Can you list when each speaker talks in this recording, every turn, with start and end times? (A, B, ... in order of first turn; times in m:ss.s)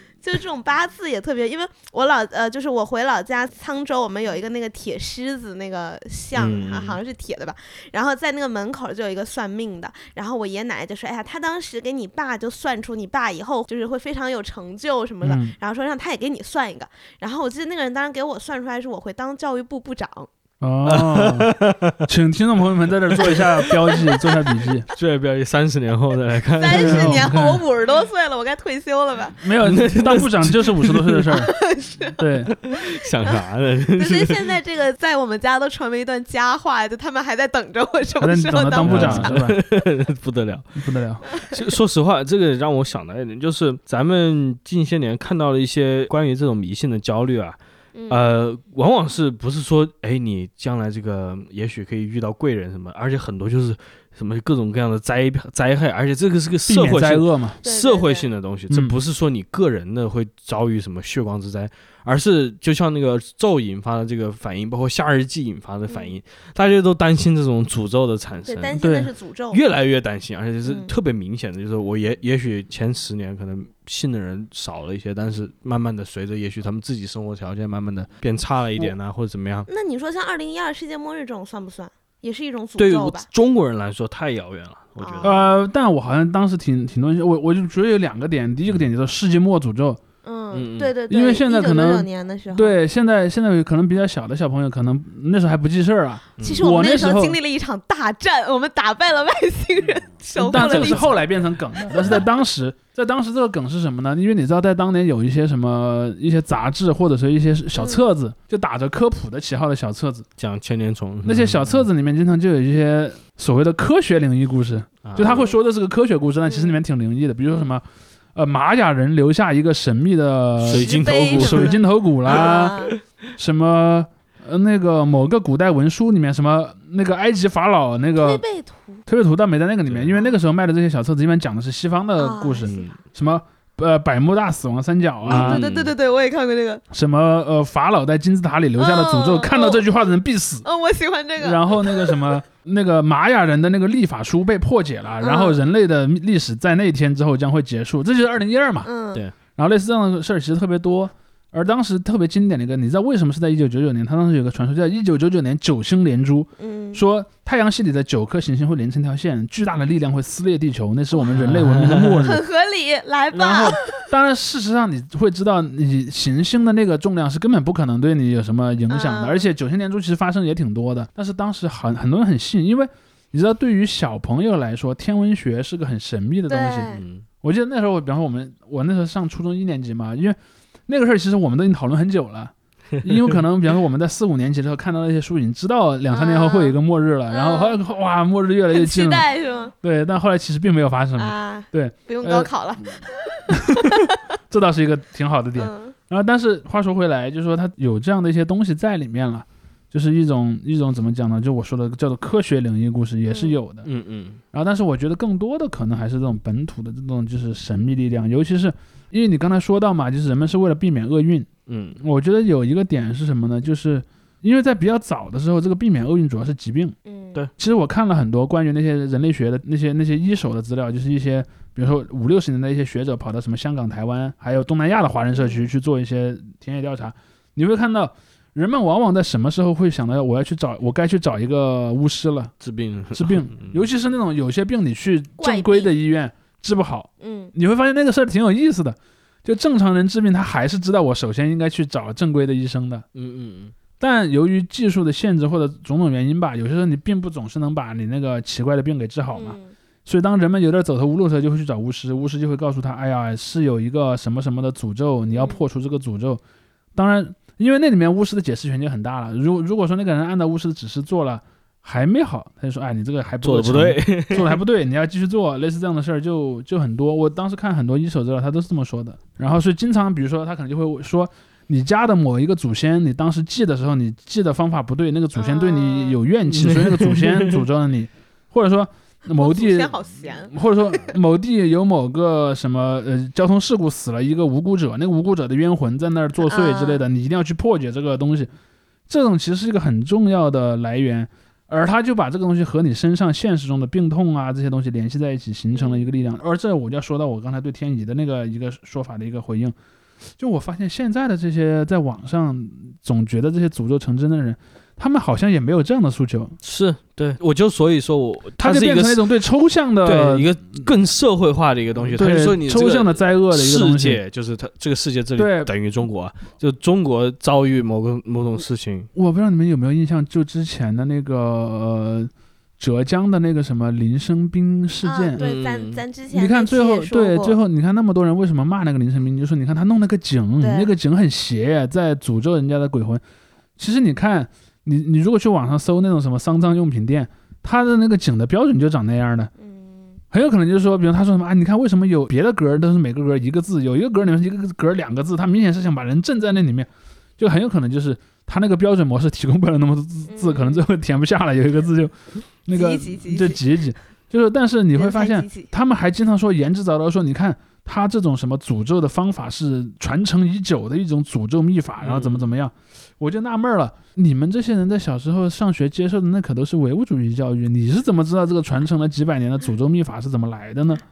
0:00.2-0:20.3 A
0:06.4-0:07.0 B
0:15.2-0:15.5 C
0:20.6-0:24.9 C
0:20.9-0:22.0 B
0:23.2-0:24.2 B
0:23.9-0:24.6 A
0:25.0-0:27.4 B
0:26.6-0:29.5 A
0:26.7-0:27.6 C
0:29.4-0:31.5 C
0:29.6-0:31.4 B
0:31.3-0:39.5 A
0:32.2-0:32.5 C
0:32.6-0:34.5 B
0:38.2-0:39.6 C
0:38.8-0:40.8 B
0:40.8-0:41.2 C
0:41.4-0:47.6 B
0:48.0-0:48.3 A
0:48.1-1:08.8 B
0:56.7-0:57.6 C
0:57.6-0:58.3 A
0:58.7-0:59.0 C
1:08.5-1:09.6 A
1:08.8-1:09.1 C
1:09.5-1:19.7 B
1:10.7-1:10.9 A
1:19.7-1:23.3 A
1:22.8-1:25.4 B
1:25.0-1:25.4 A
1:25.2-1:30.0 C
1:30.2-1:32.8 A
1:30.5-1:30.9 B
1:31.1-1:37.4 C
1:36.4-1:36.6 B
1:36.4-1:41.2 A
1:40.4-1:50.2 C
1:40.5-1:41.0 B
1:41.8-1:42.3 A
1:47.8-1:48.0 A
1:50.4-1:51.9 B
1:51.2-1:57.8 C
1:55.0-1:55.5 B
1:56.5-1:56.8 A
1:58.4-2:08.4 C
2:00.6-2:01.8 B
2:00.7-2:03.0 A
2:02.5-2:02.9 B
2:08.2-2:09.0 A
2:09.1-2:15.6 C
2:09.9-2:10.1 B
2:12.2-2:12.9 A
2:15.2-2:15.9 B
2:15.3-2:16.8 A
2:16.9-2:20.6 C
2:18.8-2:19.8 A
2:20.6-2:22.3 A
2:21.4-2:28.9 C
2:25.2-2:25.6 A
2:28.8-2:29.2 A
2:29.6-2:42.4 C
2:36.6-2:37.0 A
2:41.3-2:42.3 B
2:42.2-2:44.1 A
2:43.3-3:00.4 C
2:48.9-2:49.5 A
2:56.5-2:57.0 A
2:56.9-2:57.2 B
3:00.9-3:09.3 C
3:06.1-3:06.8 A
3:07.3-3:07.8 A
3:08.7-3:09.7 A
3:09.8-3:12.5 C
3:11.2-3:14.0 A
3:13.5-3:23.9 C
3:15.6-3:16.0 A
3:23.3-3:23.6 A
3:23.8-3:24.4 B
3:24.5-3:31.5 C
3:31.7-3:32.0 B
3:32.0-3:37.0 C
3:37.0-3:37.4 A
3:37.6-3:52.5 C
3:45.4-3:45.6 A
3:52.6-3:53.8 B
3:53.1-4:03.0 C
3:55.4-3:55.9 A
3:57.2-3:57.5 A
4:03.2-4:03.7 B
4:04.0-4:16.4 C
4:09.3-4:09.7 A
4:15.3-4:15.6 A
4:17.0-4:48.5 C
4:23.4-4:24.6 B
4:35.4-4:36.2 A
4:36.5-4:37.6 B
4:39.4-4:41.1 A
4:46.4-4:47.0 A
4:49.1-4:59.8 C
4:55.7-4:56.1 A
5:00.4-5:06.6 C
5:06.6-5:09.2 B
5:08.6-5:10.5 C
5:10.0-5:19.1 B
5:12.1-5:14.2 C
5:15.4-5:15.7 C
5:19.2-5:25.4 C
5:25.0-5:27.6 A
5:25.4-5:26.0 B
5:26.3-5:33.2 C
5:30.6-5:30.9 A
5:33.8-5:39.5 C
5:39.6-5:40.2 A
5:40.3-5:52.1 C
5:50.3-5:50.8 A
5:52.6-6:11.0 C
5:52.7-5:53.6 A
5:55.0-5:55.7 A
6:02.0-6:02.5 B